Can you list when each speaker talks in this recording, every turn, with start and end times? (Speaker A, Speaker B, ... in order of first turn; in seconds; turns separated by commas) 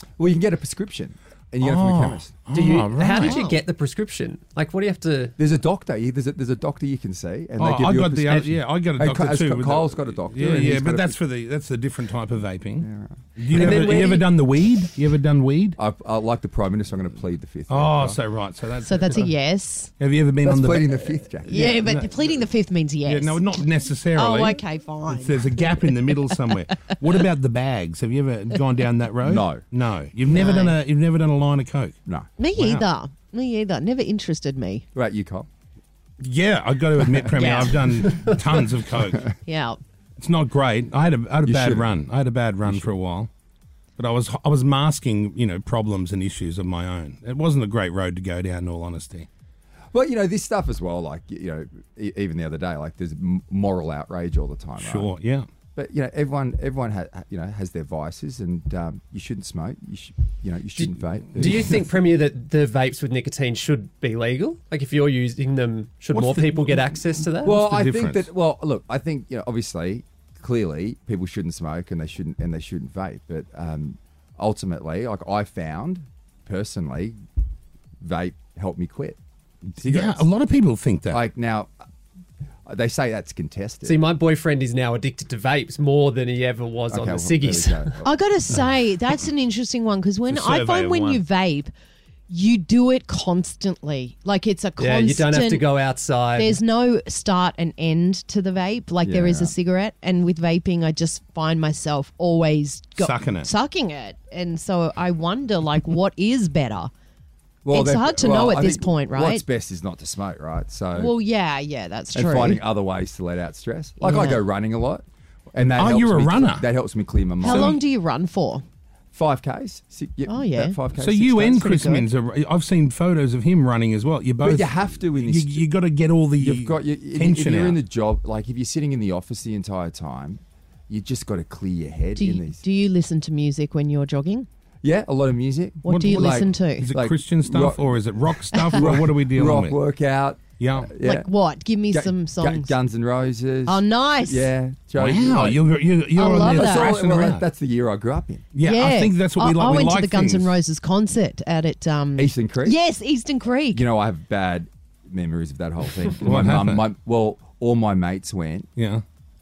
Speaker A: 0.2-2.3, Speaker B: 1.6-3.4, Speaker C: 2.5-5.3, Speaker D: 3.2-3.6, Speaker A: 5.4-11.2, Speaker B: 7.6-15.8, Speaker A: 12.8-14.2, Speaker C: 13.5-14.3, Speaker A: 15.8-18.2, Speaker B: 17.7-19.3, Speaker D: 18.8-19.9, Speaker B: 20.0-22.1, Speaker A: 20.4-21.8, Speaker D: 21.5-23.4, Speaker B: 23.1-31.9, Speaker D: 24.1-26.5, Speaker A: 29.2-29.6, Speaker D: 30.3-30.8, Speaker D: 32.4-34.8, Speaker B: 32.5-32.8, Speaker A: 34.9-35.5, Speaker B: 36.2-39.3, Speaker D: 37.3-38.0, Speaker D: 39.5-39.8, Speaker B: 40.2-43.3, Speaker A: 41.4-41.9, Speaker B: 44.0-49.3, Speaker A: 49.9-55.1, Speaker B: 54.8-55.5, Speaker A: 55.8-61.9, Speaker C: 60.8-67.6, Speaker B: 66.1-68.3, Speaker A: 67.4-77.1, Speaker A: 78.0-79.2, Speaker A: 79.8-80.3, Speaker B: 79.8-81.2, Speaker A: 81.1-81.7, Speaker A: 82.7-84.0, Speaker C: 83.8-88.0, Speaker A: 86.9-88.1, Speaker D: 88.0-91.7, Speaker B: 90.3-91.2, Speaker D: 92.3-95.7, Speaker C: 94.8-96.6, Speaker D: 96.3-106.9, Speaker A: 99.0-99.5, Speaker B: 103.0-103.5, Speaker A: 107.6-111.1, Speaker D: 107.7-109.4, Speaker D: 110.9-112.6, Speaker A: 112.1-117.8, Speaker D: 114.0-114.4, Speaker B: 115.7-116.6, Speaker D: 117.4-118.6, Speaker B: 117.4-117.8, Speaker A: 119.1-121.7, Speaker D: 120.3-120.8, Speaker B: 121.0-127.8, Speaker D: 121.4-122.0, Speaker A: 124.4-125.6, Speaker A: 126.4-132.6, Speaker D: 132.2-134.5, Speaker A: 134.8-137.8, Speaker D: 135.8-136.9, Speaker B: 135.9-139.8, Speaker D: 138.5-138.8, Speaker A: 138.7-141.3, Speaker B: 140.6-140.9, Speaker D: 141.0-142.7, Speaker A: 141.9-145.6, Speaker D: 143.7-144.5, Speaker B: 145.0-147.4, Speaker D: 146.2-146.9, Speaker A: 146.2-148.4, Speaker B: 148.5-150.6, Speaker D: 148.6-153.8, Speaker A: 152.2-152.8, Speaker A: 153.7-158.7, Speaker B: 156.2-156.8, Speaker B: 158.8-159.0